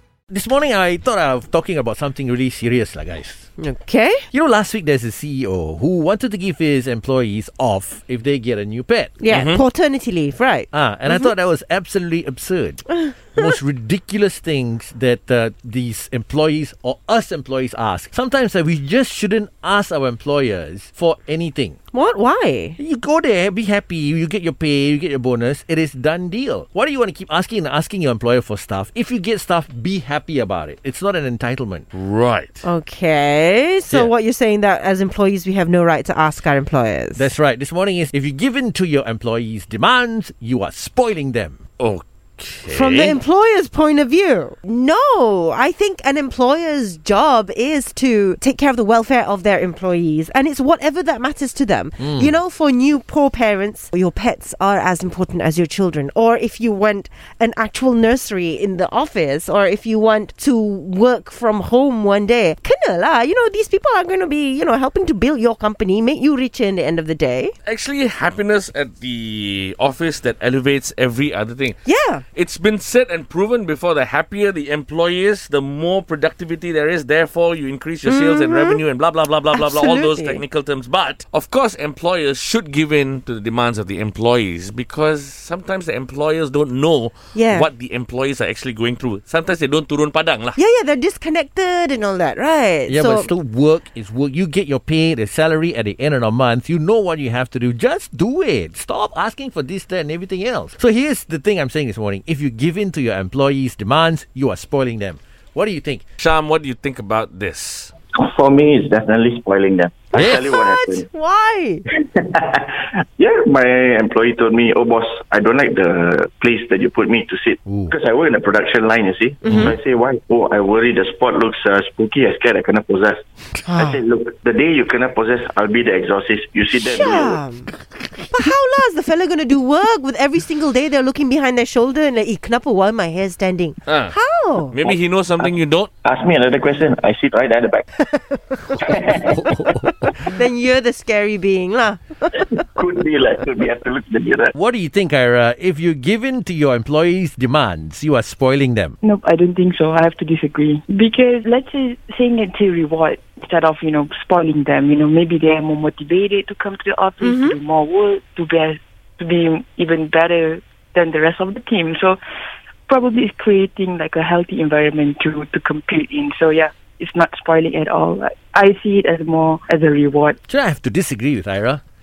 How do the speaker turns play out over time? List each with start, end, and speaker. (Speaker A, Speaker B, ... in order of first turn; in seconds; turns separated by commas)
Speaker A: 0.3-3.5, Speaker B: 3.6-4.2, Speaker A: 4.3-9.2, Speaker B: 9.2-11.3, Speaker C: 9.3-9.6, Speaker A: 10.7-21.8, Speaker B: 13.0-13.5, Speaker B: 21.9-22.8, Speaker A: 22.8-31.9, Speaker C: 31.9-32.6, Speaker B: 32.6-37.3, Speaker A: 37.2-41.6, Speaker C: 41.8-43.2, Speaker B: 42.7-67.5, Speaker A: 52.0-52.3, Speaker C: 67.7-71.8, Speaker B: 71.8-72.2, Speaker C: 72.3-90.6, Speaker B: 78.1-78.8, Speaker B: 79.5-80.4, Speaker B: 87.3-87.7, Speaker B: 90.6-93.3, Speaker A: 92.9-106.0, Speaker C: 106.2-107.9, Speaker D: 108.1-111.1, Speaker A: 110.2-110.4, Speaker B: 110.2-111.8, Speaker D: 112.0-127.4, Speaker A: 117.7-117.9, Speaker B: 119.4-119.7, Speaker A: 119.5-119.7, Speaker B: 123.7-124.0, Speaker B: 126.8-127.7, Speaker B: 128.3-134.8, Speaker C: 133.9-134.1, Speaker C: 134.7-135.9, Speaker D: 136.0-137.9, Speaker B: 138.1-138.8, Speaker D: 138.8-139.5, Speaker B: 139.9-142.4, Speaker D: 142.6-144.5, Speaker A: 144.6-149.0, Speaker E: 149.0-162.2, Speaker B: 157.2-157.6, Speaker E: 162.9-170.4, Speaker A: 170.5-171.8